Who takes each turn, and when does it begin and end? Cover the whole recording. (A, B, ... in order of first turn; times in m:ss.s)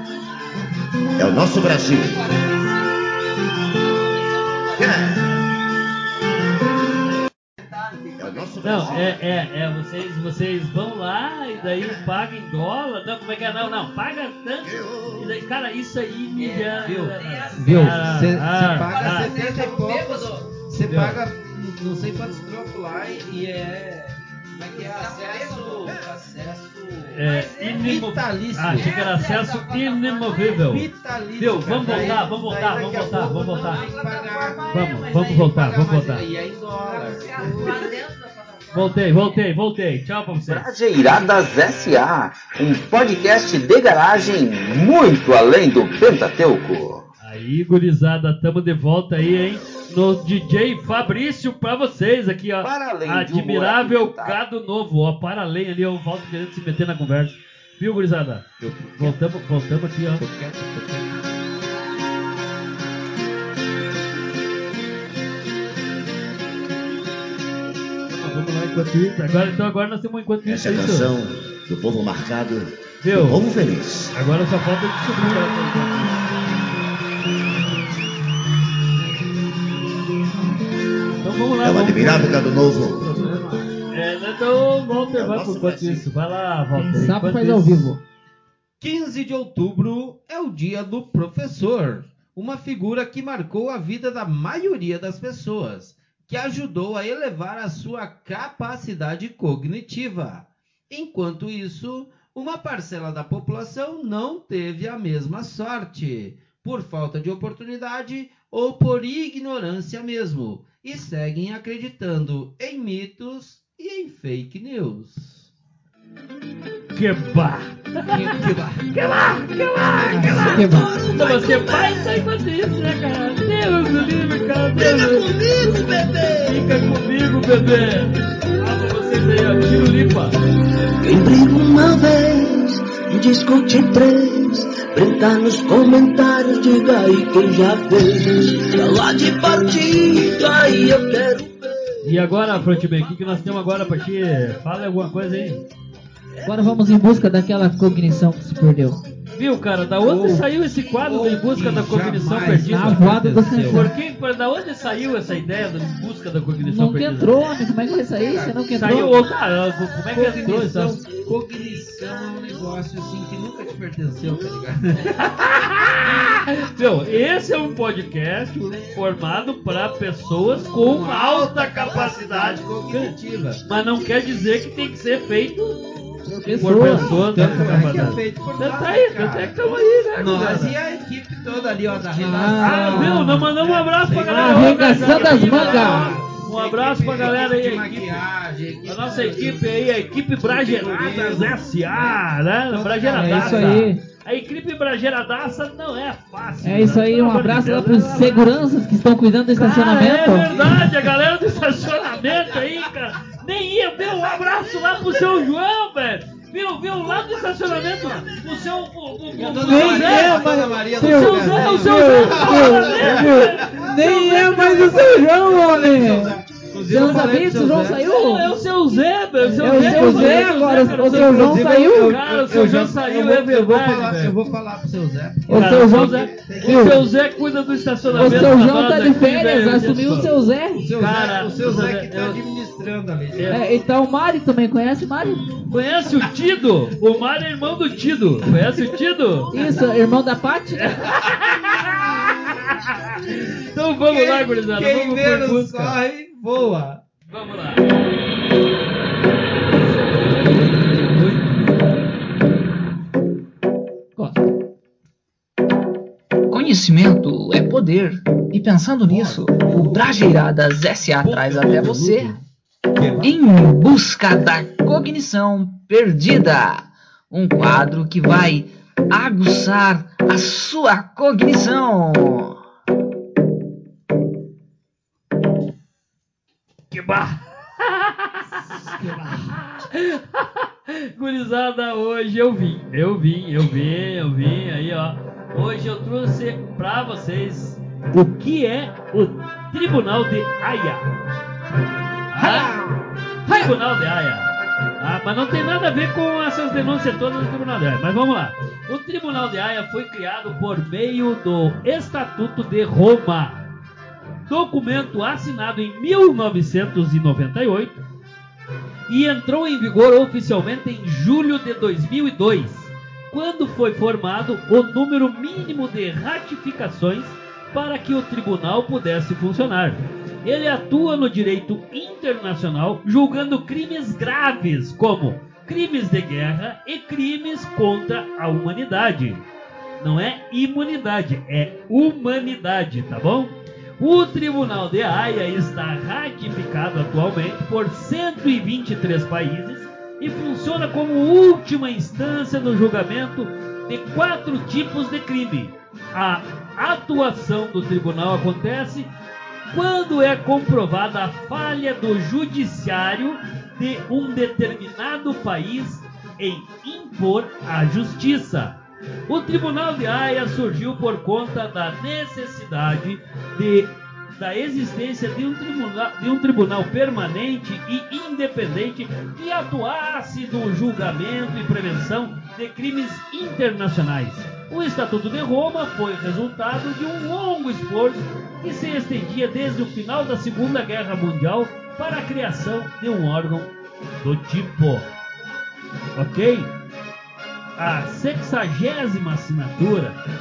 0:01.2-0:02.2 A
0:04.8-0:05.3 A
0:08.2-0:09.2 A
0:08.6-0:19.3 B
0:14.6-0:15.4 A
0:16.4-0:17.2 C
0:16.8-0:28.9 D
0:18.8-0:20.0 C
0:19.3-0:20.3 E
0:20.9-0:21.2 B
0:25.2-0:25.9 E
0:27.1-0:30.9 B
0:27.2-0:27.9 E
0:28.7-0:30.6 E
0:30.6-0:37.9 D
0:31.4-0:33.8 B
0:31.9-0:32.2 E
0:33.6-0:35.4 E
0:34.7-0:36.2 B
0:36.8-0:39.3 E
0:38.7-0:40.7 B
0:40.4-0:47.1 C
0:47.2-0:58.5 B
0:52.6-0:54.4 C
0:58.6-0:59.2 D
0:59.0-1:00.2 B
1:00.2-1:01.1 D
1:08.1-1:11.1 B
1:10.4-1:14.2 A
1:13.0-1:13.4 B
1:14.1-1:16.2 B
1:21.2-1:22.6 B
1:21.6-1:23.1 A
1:23.0-1:23.7 D
1:23.9-1:27.9 B
1:24.9-1:26.1 A
1:26.8-1:28.0 E
1:28.8-1:55.5 D
1:56.9-1:58.3 B
1:58.1-1:58.4 E
1:58.3-1:58.9 D
1:58.9-2:10.3 B
2:00.1-2:01.0 E
2:00.1-2:02.2 F
2:04.8-2:06.9 F
2:11.0-2:21.7 F
2:22.0-2:25.6 B
2:26.4-2:29.0 E
2:29.4-2:33.1 B
2:30.0-2:33.9 D
2:32.4-2:33.9 E
2:33.6-2:37.4 B
2:36.6-2:39.2 E
2:38.2-2:39.2 D
2:38.7-2:41.0 B
2:40.1-2:45.4 D
2:45.2-2:53.1 B
2:50.7-2:53.6 D
2:53.7-2:55.8 B
2:56.3-2:58.1 E
2:56.6-3:00.8 B
2:57.0-2:59.6 D
3:00.2-3:09.7 D
3:02.2-3:03.5 E
3:02.6-3:08.2 B
3:04.2-3:06.2 E
3:08.9-3:18.6 B
3:10.4-3:13.9 D
3:13.2-3:14.0 E
3:16.6-3:20.6 E
3:19.6-3:34.4 B
3:20.5-3:20.9 D
3:29.4-3:38.0 D
3:29.6-3:36.4 E
3:36.9-3:38.5 E
3:38.0-3:44.4 B
3:39.5-3:42.2 E
3:39.6-3:47.0 D
3:45.5-3:47.0 E
3:45.5-3:50.3 B
3:48.1-3:48.6 D
3:48.1-3:50.8 E
3:50.8-3:53.6 D
3:51.0-3:52.4 B
3:53.3-3:53.6 B
3:53.5-3:55.7 E
3:55.7-3:59.5 B
3:59.5-4:01.0 E
4:00.8-4:06.0 B
4:04.0-4:07.0 D
4:07.3-4:07.9 B
4:09.7-4:11.9 B
4:14.2-4:14.5 E
4:16.5-4:22.4 G
4:19.1-4:20.0 D
4:21.2-4:22.4 D
4:22.9-4:23.4 D
4:23.2-4:32.6 G
4:36.9-4:51.1 B
4:38.7-4:39.5 E
4:52.3-4:52.8 B
4:52.4-4:53.0 E
4:53.5-5:03.6 B
5:04.5-5:08.0 B
5:09.1-5:29.4 B
5:30.0-5:49.1 B
5:49.7-5:58.8 B
5:59.3-6:25.1 B
6:26.2-6:26.7 B
6:27.8-6:30.2 B